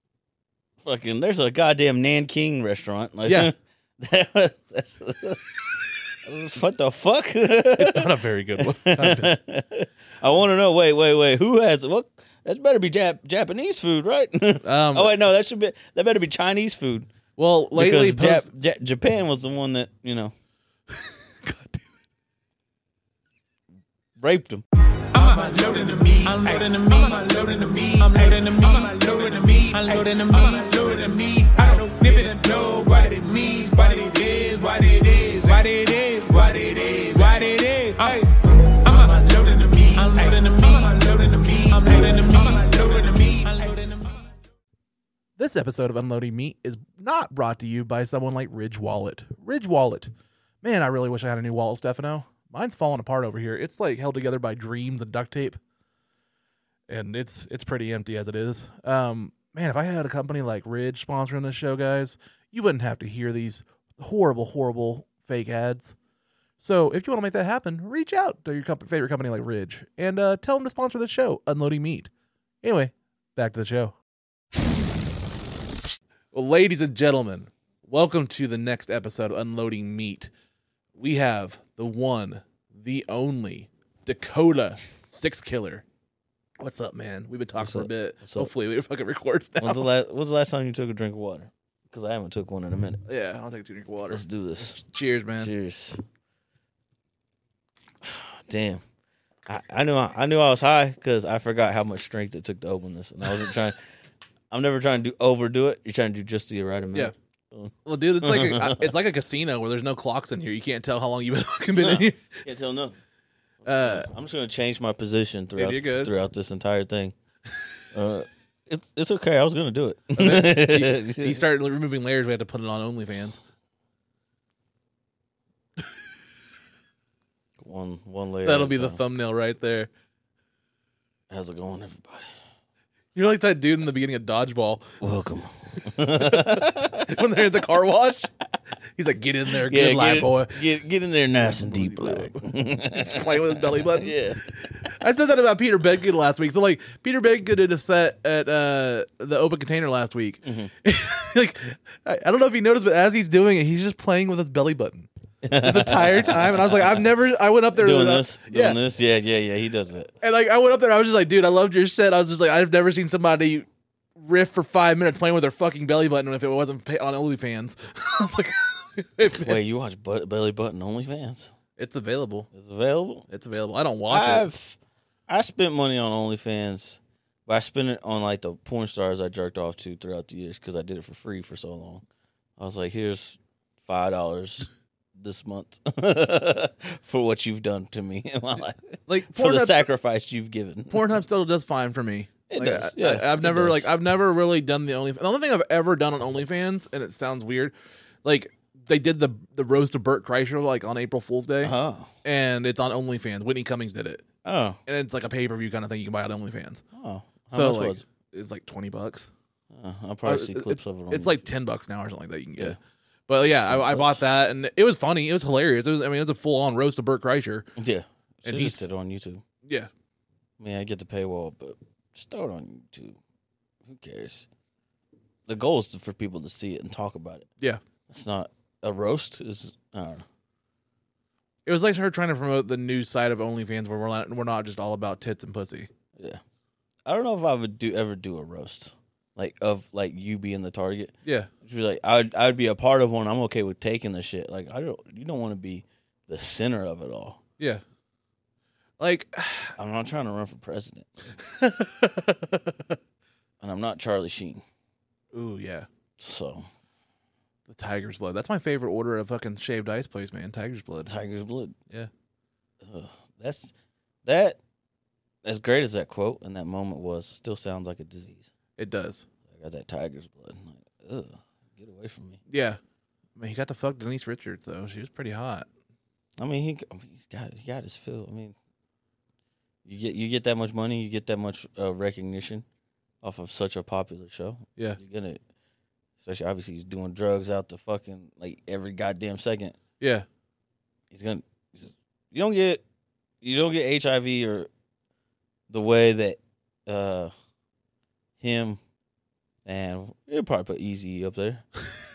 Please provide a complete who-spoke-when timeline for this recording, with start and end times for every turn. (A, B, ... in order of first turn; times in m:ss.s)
0:00.8-0:05.5 A
0:06.2-0:17.1 A
0:07.7-0:09.3 B
0:14.6-0:15.1 B
0:17.4-0:18.5 B
0:17.7-0:20.3 A
0:21.0-0:21.8 B
0:24.2-0:24.6 A
0:25.1-0:44.3 C
0:45.4-0:50.1 B
0:50.6-0:55.6 B
0:56.9-1:06.0 B
1:06.6-1:12.1 B
1:12.6-1:13.9 B
1:16.3-1:20.3 B
1:21.0-1:25.8 B
1:26.6-1:29.8 B
1:27.6-1:28.5 A
1:29.6-1:33.0 A
1:33.1-1:35.5 B
1:34.1-1:34.8 A
1:35.4-1:36.0 A
1:38.0-1:38.8 A
1:39.4-1:43.8 A
1:44.5-1:48.9 A
1:47.8-1:52.2 B
1:51.8-1:53.0 A
1:53.6-1:57.1 A
1:53.6-1:54.1 B
1:55.6-1:56.1 B
1:57.9-2:01.4 A
2:00.2-2:03.4 B
2:07.6-2:09.0 A
2:08.4-2:09.9 B
2:11.3-2:12.3 A
2:13.1-2:15.0 B
2:15.0-2:17.1 A
2:16.0-2:18.3 B
2:18.9-2:20.6 B
2:19.6-2:24.6 A
2:21.4-2:38.8 B
2:30.4-2:30.7 A
2:35.4-2:37.0 A
2:37.7-2:40.1 A
2:40.2-2:49.6 B
2:49.3-2:51.5 A
2:51.8-2:52.5 B
2:52.5-2:53.3 A
2:53.3-2:54.5 B
2:54.1-3:02.0 A
3:02.6-3:11.2 A
3:09.1-3:09.9 B
3:10.9-3:17.7 B
3:12.5-3:13.9 A
3:18.2-3:21.7 B
3:21.6-3:22.1 A
3:22.2-3:24.2 B
3:24.4-3:24.8 A
3:24.9-3:26.8 B
3:26.9-3:28.0 A
3:27.5-3:29.3 B
3:29.7-3:31.5 A
3:30.2-3:32.8 B
3:33.3-3:37.7 B
3:33.6-3:34.2 A
3:37.8-3:39.4 A
3:38.4-3:38.8 B
3:39.6-3:39.9 B
3:40.6-3:43.2 A
3:43.8-3:44.5 A
3:45.5-3:47.5 A
3:48.1-3:50.2 A
3:51.6-3:55.9 B
3:57.0-4:07.4 A
4:01.2-4:01.5 B
4:09.0-4:09.7 B
4:09.8-4:11.1 A
4:11.4-4:12.8 B
4:13.6-4:14.6 A
4:15.3-4:15.9 B
4:16.2-4:16.7 A
4:17.7-4:21.1 B
4:21.0-4:21.8 A
4:22.8-4:23.7 A
4:24.2-4:24.6 A
4:25.4-4:28.5 A
4:28.8-4:29.3 B
4:29.5-4:32.4 A
4:32.5-4:32.8 B
4:33.4-4:35.7 B
4:36.4-4:38.6 A
4:39.8-4:42.6 A
4:43.2-4:45.4 A
4:46.2-4:49.8 A
4:50.0-4:50.2 B
4:51.1-4:52.8 A
4:53.4-4:54.7 A
4:55.7-4:57.3 A
4:58.4-4:58.8 A
4:59.6-5:01.6 A